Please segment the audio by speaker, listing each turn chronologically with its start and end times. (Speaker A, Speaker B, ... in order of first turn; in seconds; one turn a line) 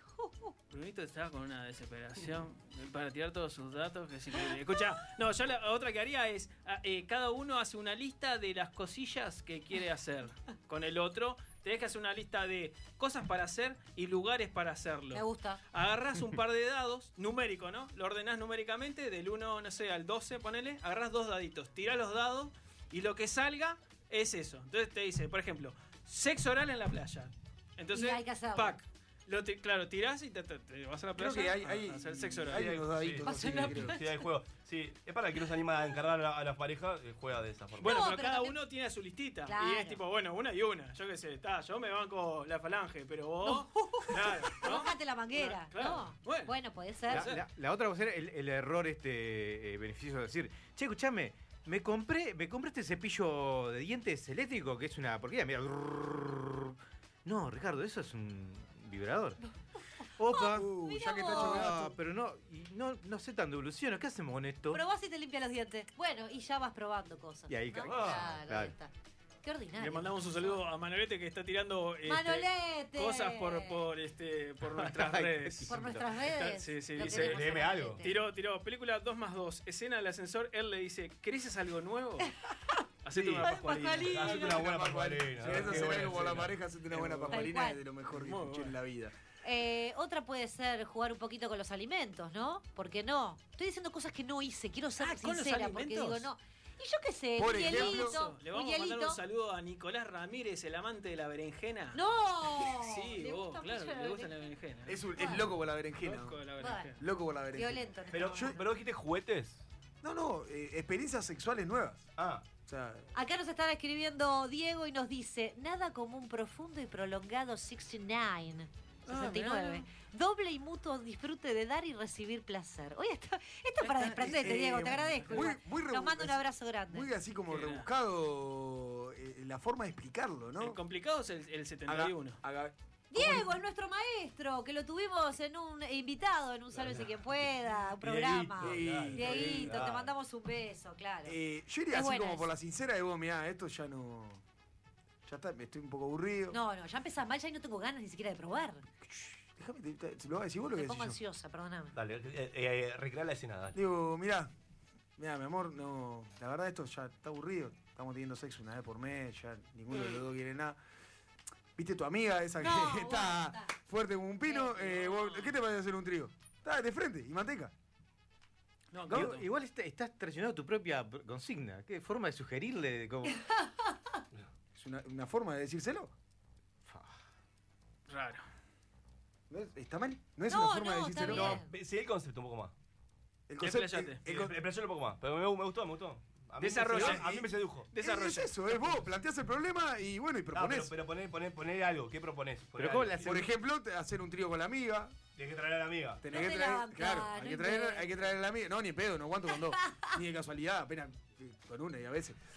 Speaker A: 0.2-0.5
Speaker B: 0.7-32.7
Speaker A: 15.1-15.6
Speaker A: 27.9-28.8
Speaker C: 31.1-34.0
Speaker D: 32.5-38.0
Speaker A: 33.2-34.2
Speaker B: 37.8-46.5
Speaker A: 37.8-38.6
Speaker A: 39.5-40.0
Speaker A: 43.4-47.3
Speaker B: 47.1-47.4
Speaker E: 47.1-59.4
Speaker E: 60.2-60.7
Speaker A: 60.3-61.7
Speaker C: 60.5-61.9
Speaker E: 61.2-64.8
Speaker A: 64.7-68.9
Speaker E: 67.5-68.7
Speaker D: 67.9-68.3
Speaker A: 69.4-70.6
Speaker B: 69.8-82.3
Speaker A: 72.0-73.8
Speaker E: 74.7-76.1
Speaker A: 75.7-78.2
Speaker D: 77.0-78.0
Speaker B: 83.0-84.4
Speaker D: 83.1-86.5
Speaker A: 83.4-84.5
Speaker C: 84.1-89.1
Speaker B: 86.9-87.4
Speaker A: 87.3-87.8
Speaker B: 88.1-88.7
Speaker A: 89.4-99.2
Speaker B: 95.0-96.3
Speaker C: 97.4-98.2
Speaker B: 97.5-102.0
Speaker A: 101.9-104.5
Speaker B: 102.6-105.3
Speaker C: 104.8-106.4
Speaker A: 105.2-105.5
Speaker B: 106.0-107.0
Speaker A: 106.6-106.9
Speaker C: 107.0-108.6
Speaker A: 107.5-108.6
Speaker D: 108.1-109.6
Speaker C: 110.0-112.1
Speaker D: 112.2-112.5
Speaker C: 112.6-113.1
Speaker A: 113.1-127.1
Speaker B: 119.1-119.8
Speaker B: 123.8-124.3
Speaker C: 124.0-130.8
Speaker B: 124.8-125.5
Speaker B: 127.5-127.9
Speaker B: 130.6-132.4
Speaker C: 131.9-133.5
Speaker A: 133.1-141.4
Speaker D: 136.8-137.2
Speaker D: 138.0-140.1
Speaker C: 138.6-139.8
Speaker C: 141.2-144.4
Speaker A: 141.9-142.5
Speaker C: 145.2-146.6
Speaker A: 146.5-148.8
Speaker C: 149.0-151.2
Speaker A: 150.7-151.9
Speaker D: 151.9-153.8
Speaker C: 153.7-154.5
Speaker C: 155.2-160.8
Speaker C: 161.8-167.7
Speaker A: 162.6-163.7
Speaker A: 164.5-164.7
Speaker B: 164.8-165.5
Speaker B: 168.9-169.4
Speaker C: 169.1-169.4
Speaker E: 169.1-173.3
Speaker A: 173.3-173.9
Speaker C: 174.7-176.1
Speaker B: 178.1-178.4
Speaker C: 179.5-181.6
Speaker A: 180.5-181.7
Speaker D: 181.2-182.7
Speaker C: 183.5-184.5
Speaker B: 183.6-184.2
Speaker D: 184.2-187.9
Speaker B: 186.6-187.3
Speaker C: 186.9-187.5
Speaker B: 187.9-188.9
Speaker C: 188.0-190.9
Speaker D: 190.5-193.4
Speaker E: 192.8-193.4
Speaker C: 193.2-195.1
Speaker D: 195.3-196.2
Speaker C: 196.2-202.4
Speaker A: 196.3-198.1
Speaker A: 199.8-200.1